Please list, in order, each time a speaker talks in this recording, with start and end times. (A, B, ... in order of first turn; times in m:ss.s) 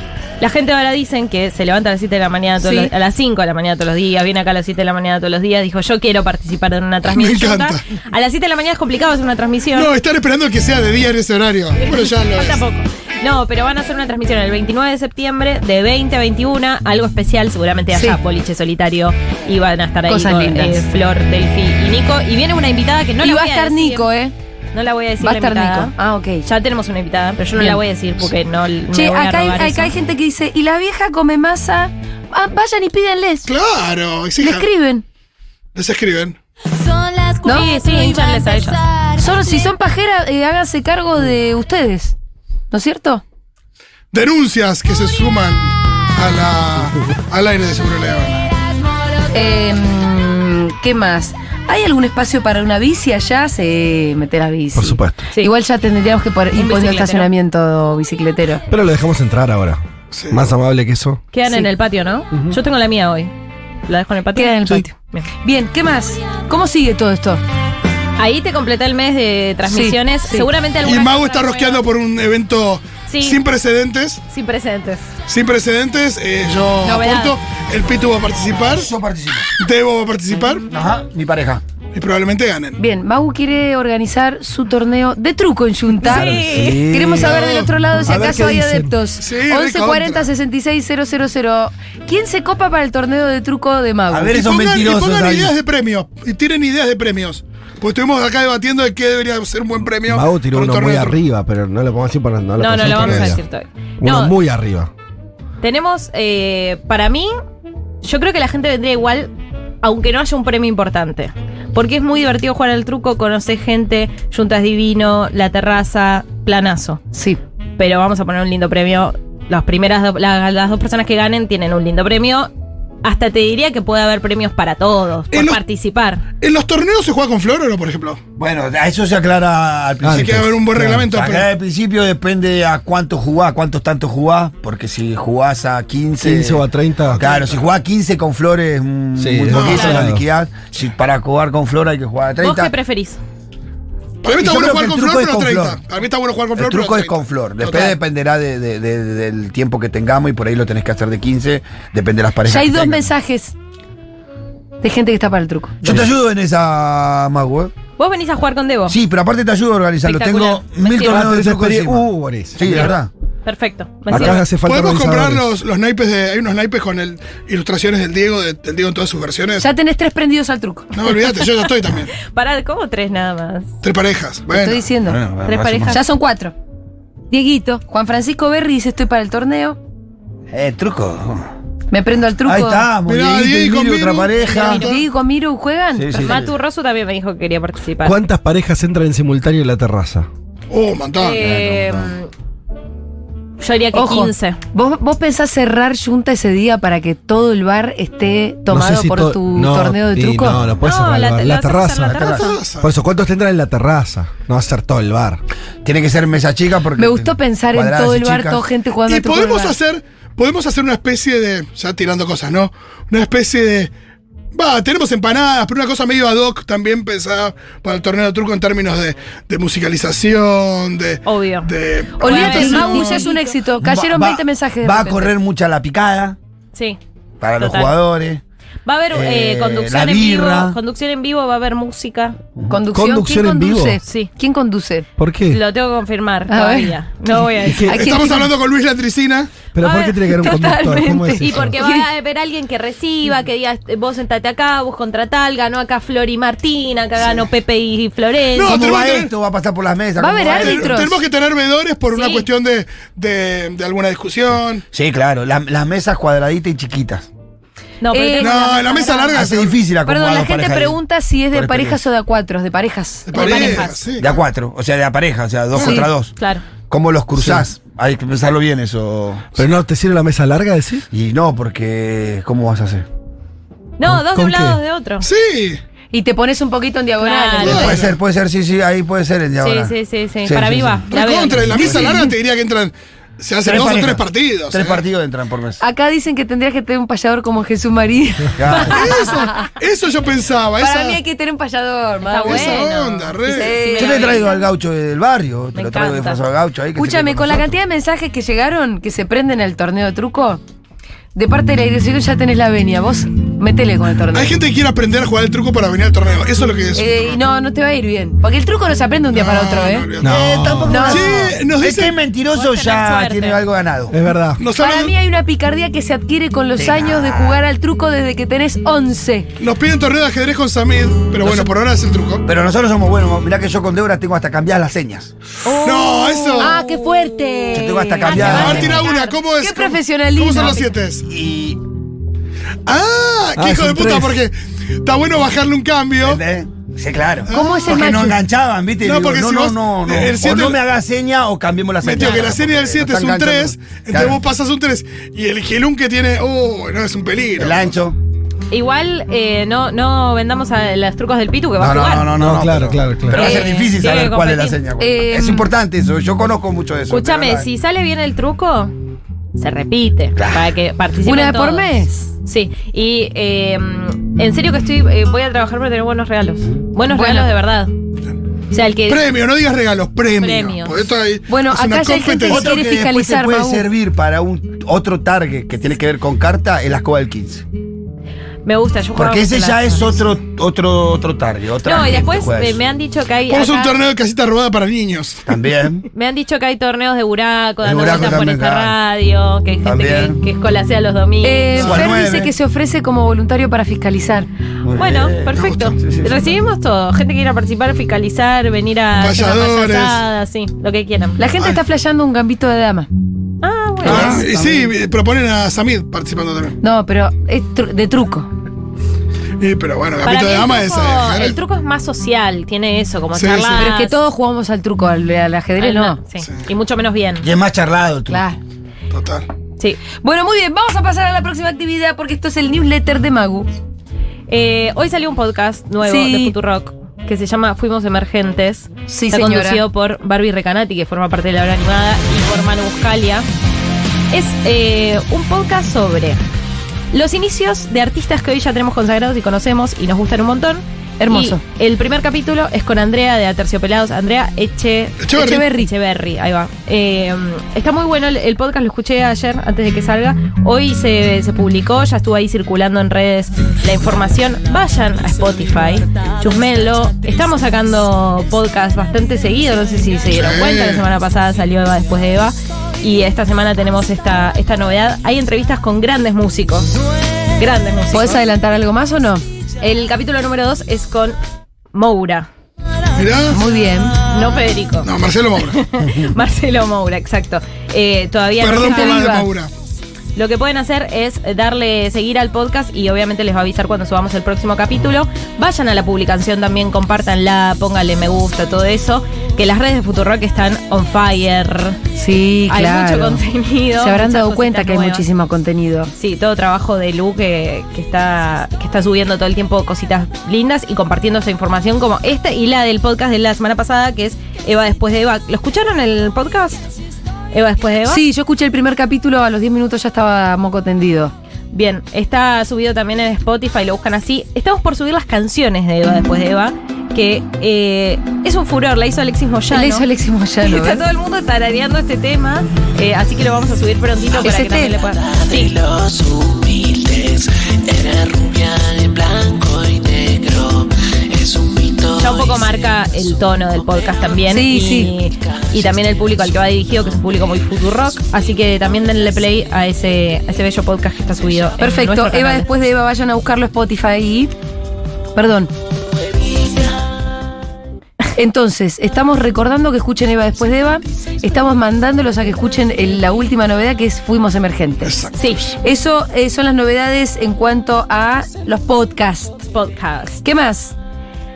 0:00.4-0:09.9 A
0:07.0-0:07.9 B
0:09.7-0:12.6 B
0:11.8-0:24.1 A
0:17.9-0:18.2 C
0:20.1-0:20.8 C
0:23.2-0:24.3 C
0:24.7-0:25.9 A
0:25.2-0:26.4 C
0:26.4-0:29.9 A
0:27.6-0:27.8 C
0:28.9-0:33.5 C
0:33.4-0:34.7 B
0:34.4-0:35.0 C
0:35.8-0:36.4 B
0:37.4-0:37.8 C
0:37.4-0:38.9 A
0:39.0-0:42.1 C
0:42.7-0:43.2 C
0:44.1-0:48.5 B
0:49.3-0:58.6 C
0:54.8-0:55.2 D
0:56.5-0:57.3 A
0:58.7-1:01.2 D
1:00.1-1:00.4 B
1:01.3-1:03.3 A
1:03.9-1:05.2 A
1:04.4-1:07.4 C
1:08.2-1:11.8 A
1:09.6-1:10.5 C
1:10.8-1:14.2 B
1:13.1-1:13.4 A
1:14.3-1:15.1 A
1:15.3-1:18.9 B
1:16.8-1:17.4 A
1:18.7-1:19.5 E
1:19.6-1:20.7 B
1:20.7-1:21.6 E
1:21.9-1:22.8 B
1:22.8-1:34.4 C
1:26.0-1:26.9 A
1:26.1-1:26.9 D
1:26.1-1:27.3 E
1:27.2-1:27.7 B
1:28.0-1:28.9 D
1:29.2-1:30.3 B
1:34.1-1:35.5 E
1:34.3-1:41.2 B
1:40.1-1:43.4 D
1:42.6-1:44.4 A
1:42.8-1:43.4 B
1:44.0-1:44.9 D
1:45.6-1:47.3 A
1:48.0-1:49.3 A
1:49.8-1:57.0 A
1:57.1-1:57.4 C
1:57.8-2:02.5 A
2:03.0-2:06.2 A
2:05.3-2:05.6 B
2:06.4-2:08.2 B
2:08.4-2:10.5 E
2:10.0-2:11.1 D
2:10.1-2:11.5 B
2:11.1-2:16.6 E
2:16.2-2:17.2 D
2:17.2-2:22.7 E
2:17.2-2:17.6 B
2:19.2-2:20.2 D
2:19.5-2:19.9 B
2:19.6-2:20.0 A
2:22.4-2:23.2 A
2:24.2-2:28.0 B
2:24.2-2:25.8 E
2:26.6-2:33.1 E
2:32.5-2:33.5 C
2:34.8-2:35.8 C
2:35.8-2:37.7 E
2:38.0-2:39.0 A
2:38.9-2:43.1 E
2:40.0-2:41.3 A
2:41.0-2:42.9 D
2:42.6-2:44.4 A
2:44.1-2:45.5 D
2:44.1-2:49.6 B
2:49.6-2:50.9 C
2:50.9-2:52.1 B
2:52.1-2:53.7 A
2:53.8-2:54.8 B
2:54.5-2:55.2 C
2:55.0-2:56.0 E
2:55.4-2:56.0 A
2:55.9-2:56.5 C
2:57.3-2:59.8 C
3:00.5-3:01.5 E
3:01.9-3:02.9 C
3:02.4-3:04.8 E
3:03.1-3:05.0 B
3:04.5-3:06.4 C
3:04.5-3:05.0 A
3:05.9-3:06.5 E
3:06.2-3:08.2 A
3:08.0-3:10.3 D
3:10.7-3:11.4 B
3:11.2-3:12.3 A
3:11.4-3:12.1 E
3:13.6-3:14.6 A
3:13.9-3:20.6 C
3:18.7-3:22.2 D
3:20.8-3:22.6 A
3:22.1-3:22.5 E
3:22.2-3:22.9 B
3:22.8-3:25.4 D
3:25.8-3:28.6 E
3:27.0-3:29.8 C
3:29.1-3:33.9 B
3:34.5-3:43.3 B
3:41.2-3:43.5 A
3:42.2-3:45.4 C
3:43.8-3:46.4 E
3:46.7-3:47.0 A
3:47.4-3:48.4 E
3:47.6-3:47.9 A
3:48.8-3:52.4 A
3:49.1-3:50.8 E
3:52.7-3:55.1 C
3:52.9-3:54.0 D
3:55.2-3:55.6 D
3:55.5-3:57.9 A
3:56.5-3:57.0 C
3:57.6-3:58.2 D
3:57.9-3:58.5 C
3:57.9-3:59.6 B
3:59.7-4:01.8 D
3:59.8-4:00.5 A
4:00.3-4:02.1 C
4:01.4-4:08.8 A
4:08.5-4:09.3 B
4:08.6-4:11.0 E
4:10.2-4:11.2 C
4:10.5-4:14.8 B
4:12.1-4:12.5 A
4:14.9-4:17.3 E
4:18.0-4:18.7 A
4:18.1-4:23.9 C
4:18.4-4:19.7 B
4:19.3-4:21.0 E
4:21.5-4:22.0 E
4:23.3-4:24.3 B
4:23.3-4:24.0 A
4:24.2-4:26.4 E
4:25.7-4:26.0 B
4:25.8-4:26.1 C
4:26.4-4:26.6 A
4:26.9-4:29.6 E
4:27.4-4:27.6 D
4:29.6-4:31.0 D
4:31.1-4:33.1 E
4:34.0-4:35.3 A
4:34.0-4:34.8 D
4:35.2-4:35.8 B
4:36.1-4:37.9 C
4:37.2-4:38.0 A
4:37.6-4:38.1 B
4:37.6-4:41.1 E
4:39.6-4:41.9 A
4:41.1-4:45.0 B
4:41.8-4:42.1 E
4:41.8-4:42.1 D
4:43.6-4:45.8 E
4:45.8-4:49.7 C
4:48.6-4:49.1 E
4:48.7-4:51.2 B
4:50.8-4:52.9 C
4:52.2-4:54.6 A
4:52.4-4:53.8 B
4:53.4-4:54.4 C
4:54.0-4:57.8 E
4:55.7-4:56.4 A
4:57.0-5:00.6 C
5:01.4-5:04.6 C
5:04.3-5:07.4 B
5:07.0-5:10.1 C
5:09.3-5:12.1 B
5:10.2-5:14.2 E
5:10.2-5:11.2 D
5:10.9-5:11.3 C
5:12.5-5:13.6 A
5:14.1-5:14.6 D
5:14.6-5:15.1 B
5:14.7-5:19.5 C
5:16.8-5:17.6 E
5:19.6-5:22.4 B
5:21.4-5:21.7 E
5:22.4-5:25.3 E
5:25.6-5:30.9 C
5:25.7-5:26.8 B
5:27.7-5:29.1 E
5:28.2-5:29.4 A
5:28.4-5:31.2 B
5:31.3-5:31.8 E
5:32.9-5:36.4 B
5:33.6-5:34.4 D
5:36.2-5:44.4 E
5:37.5-5:38.4 C
5:39.0-5:40.8 B
5:42.0-5:47.9 B
5:47.6-5:48.2 E
5:48.7-5:52.3 A
5:51.8-5:57.7 E
5:52.3-5:53.4 D
5:53.3-5:54.8 A
5:53.4-5:53.9 C
5:55.0-5:55.7 C
5:57.1-5:58.9 A
5:59.6-6:07.9 A
6:00.4-6:00.7 E
6:01.2-6:02.3 C
6:07.1-6:07.5 C
6:08.7-6:09.2 A
6:09.0-6:12.7 B
6:10.4-6:11.1 A
6:11.5-6:13.9 C
6:12.5-6:17.6 E
6:18.6-6:20.1 A
6:19.1-6:22.8 E
6:21.8-6:23.9 A
6:23.5-6:25.4 B
6:25.4-6:26.1 E
6:26.1-6:32.0 A
6:27.8-6:29.0 E
6:29.8-6:30.4 E
6:31.4-6:34.5 C
6:31.8-6:32.5 E
6:34.8-6:36.5 E
6:34.9-6:41.4 A
6:35.6-6:35.9 B
6:39.1-6:40.2 B
6:41.4-6:43.1 C
6:43.6-6:44.5 A
6:44.0-6:46.8 B
6:44.1-6:44.4 C
6:44.1-6:44.6 E
6:46.8-6:48.5 C
6:49.6-6:51.6 B
6:50.2-6:54.2 A
6:53.3-6:53.9 B
6:53.7-6:56.2 C
6:55.8-6:57.5 A
6:57.4-6:58.4 E
6:58.3-6:58.6 C
6:59.1-6:59.5 B
7:00.2-7:03.7 C
7:04.5-7:13.4 A
7:06.0-7:06.5 C
7:09.1-7:09.8 C
7:14.3-7:16.4 A
7:17.1-7:46.9 A
7:21.2-7:21.6 C
7:25.2-7:25.6 B
7:25.3-7:25.9 C
7:40.3-7:41.0 B
7:47.6-7:48.4 A
7:48.1-7:49.4 C
7:49.8-7:51.4 A
7:51.9-7:52.5 A
7:53.1-7:53.6 B
7:53.5-7:54.2 C
7:54.3-7:59.2 A
7:55.0-7:55.8 B
7:58.6-7:59.7 B
7:58.8-7:59.5 C
8:00.4-8:12.0 A
8:12.2-8:13.4 C
8:12.7-8:15.2 A
8:14.0-8:16.1 C
8:16.2-8:26.8 A
8:27.5-8:28.2 A
8:28.0-8:31.3 C
8:31.7-8:40.1 A
8:39.7-8:41.0 C
8:40.6-8:45.8 A
8:44.4-8:44.9 C
8:45.1-8:54.4 F
8:52.2-9:02.7 A
8:54.4-8:55.1 C
8:55.5-8:56.0 F
9:01.8-9:04.5 C
9:05.4-9:05.7 C
9:08.4-9:15.2 C
9:15.0-9:15.8 B
9:15.4-9:15.6 A
9:15.8-9:19.7 C
9:19.7-9:20.4 A
9:20.4-9:20.9 C